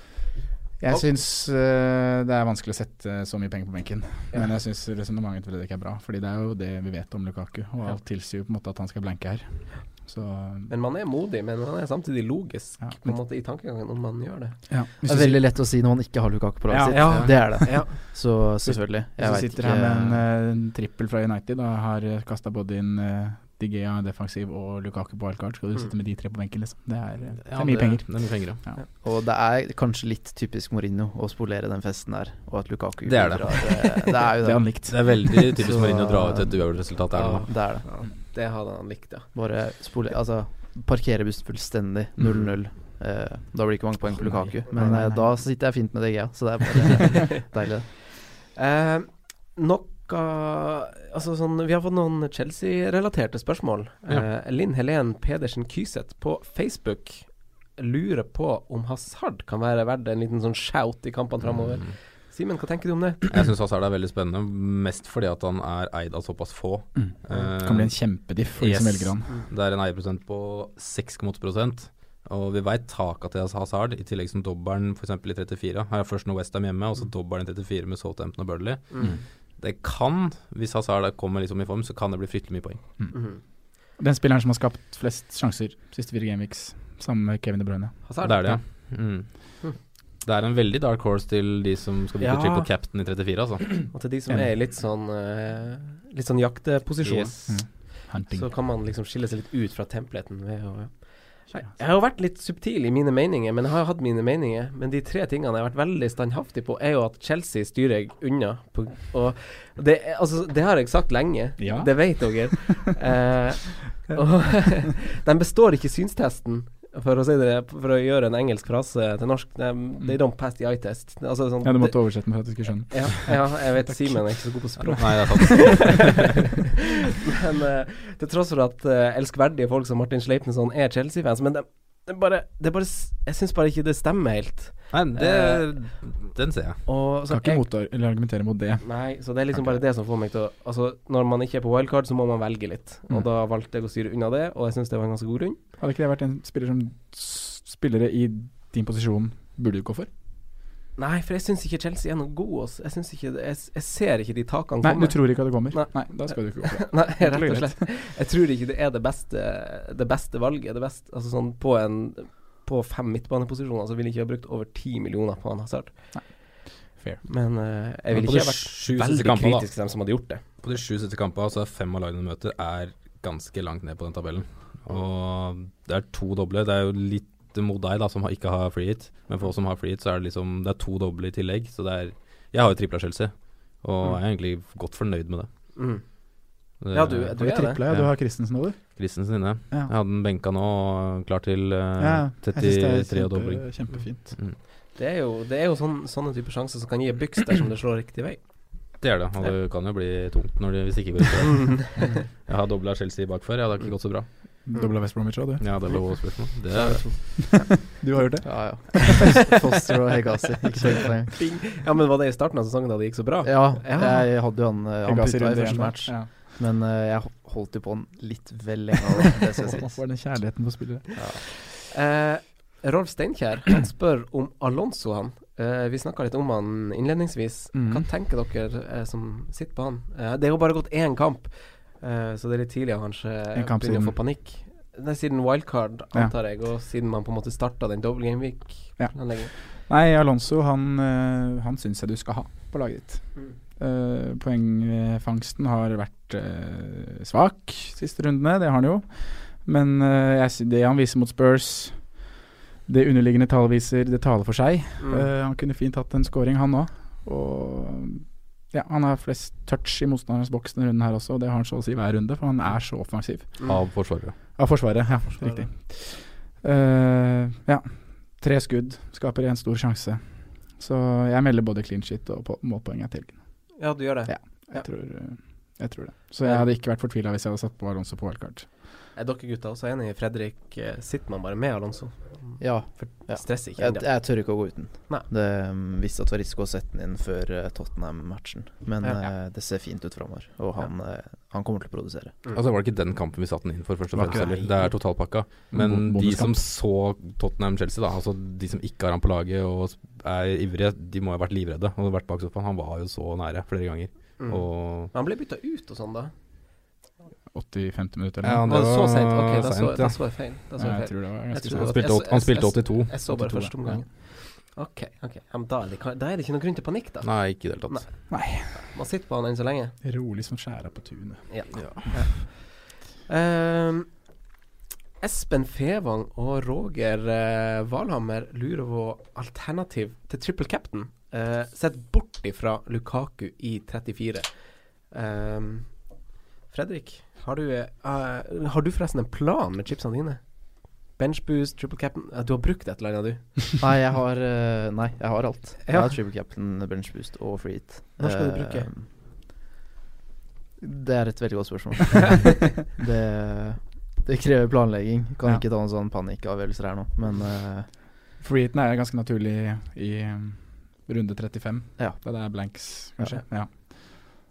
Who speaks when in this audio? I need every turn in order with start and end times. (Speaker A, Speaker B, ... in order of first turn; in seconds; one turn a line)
Speaker A: 0.8-10.7
Speaker B: 10.7-14.6
Speaker A: 12.8-13.2
Speaker A: 14.7-15.4
Speaker C: 15.0-20.2
Speaker A: 16.7-17.9
Speaker B: 16.9-17.9
Speaker A: 18.6-28.8
Speaker D: 27.4-28.6
Speaker C: 28.9-37.9
Speaker D: 33.0-34.2
Speaker A: 34.4-35.4
Speaker D: 34.9-37.5
Speaker B: 37.1-39.3
Speaker C: 39.3-48.0
Speaker A: 44.1-45.3
Speaker B: 48.2-63.4
Speaker D: 61.5-62.0
Speaker D: 63.3-82.8
Speaker A: 67.0-69.4
Speaker B: 78.9-79.2
Speaker B: 83.1-83.4
Speaker A: 84.0-88.6
Speaker B: 88.1-88.5
Speaker D: 88.2-89.7
Speaker D: 90.2-93.9
Speaker B: 92.2-92.7
Speaker B: 93.9-126.5
Speaker D: 97.0-97.6
Speaker A: 97.5-98.5
Speaker A: 111.6-112.6
Speaker A: 121.6-124.5
Speaker D: 124.9-126.2
Speaker B: 127.1-135.9
Speaker D: 134.9-136.8
Speaker B: 136.8-137.7
Speaker A: 137.3-139.0
Speaker B: 138.8-145.6
Speaker A: 145.8-150.1
Speaker B: 151.0-166.4
Speaker A: 154.8-157.8
Speaker A: 166.1-167.2
Speaker B: 167.2-170.4
Speaker D: 168.1-169.8
Speaker D: 170.6-185.5
Speaker B: 185.8-187.8
Speaker D: 186.8-194.6
Speaker A: 187.3-189.9
Speaker A: 192.0-194.4
Speaker B: 194.6-199.5
Speaker D: 199.0-204.3
Speaker B: 201.5-202.2
Speaker B: 204.5-204.9
Speaker A: 204.7-206.0
Speaker D: 205.6-207.4
Speaker B: 206.7-207.7
Speaker C: 206.8-207.0
Speaker A: 207.4-209.4
Speaker C: 208.4-211.4
Speaker B: 210.8-214.2
Speaker C: 213.4-220.0
Speaker A: 215.0-216.3
Speaker A: 219.7-221.4
Speaker B: 221.2-239.5
Speaker A: 227.7-228.1
Speaker A: 233.5-234.2
Speaker A: 239.0-252.2
Speaker A: 252.9-263.8
Speaker B: 255.0-255.3
Speaker D: 263.6-264.4
Speaker A: 264.6-278.7
Speaker B: 265.3-265.7
Speaker B: 273.8-274.9
Speaker B: 279.1-284.2
Speaker C: 282.6-292.4
Speaker B: 289.0-289.3
Speaker D: 292.5-305.1
Speaker A: 294.1-294.8
Speaker A: 295.7-296.6
Speaker B: 304.4-306.4
Speaker A: 307.5-308.7
Speaker D: 308.4-310.2
Speaker B: 308.6-320.0
Speaker A: 310.8-311.9
Speaker D: 311.7-313.4
Speaker A: 313.3-314.1
Speaker D: 317.2-318.2
Speaker A: 318.3-318.9
Speaker A: 320.0-322.2
Speaker B: 321.5-324.2
Speaker D: 321.8-322.0
Speaker B: 325.2-343.6
Speaker C: 343.8-349.1
Speaker B: 345.9-346.1
Speaker B: 348.2-348.9
Speaker C: 350.8-357.9
Speaker A: 358.4-363.7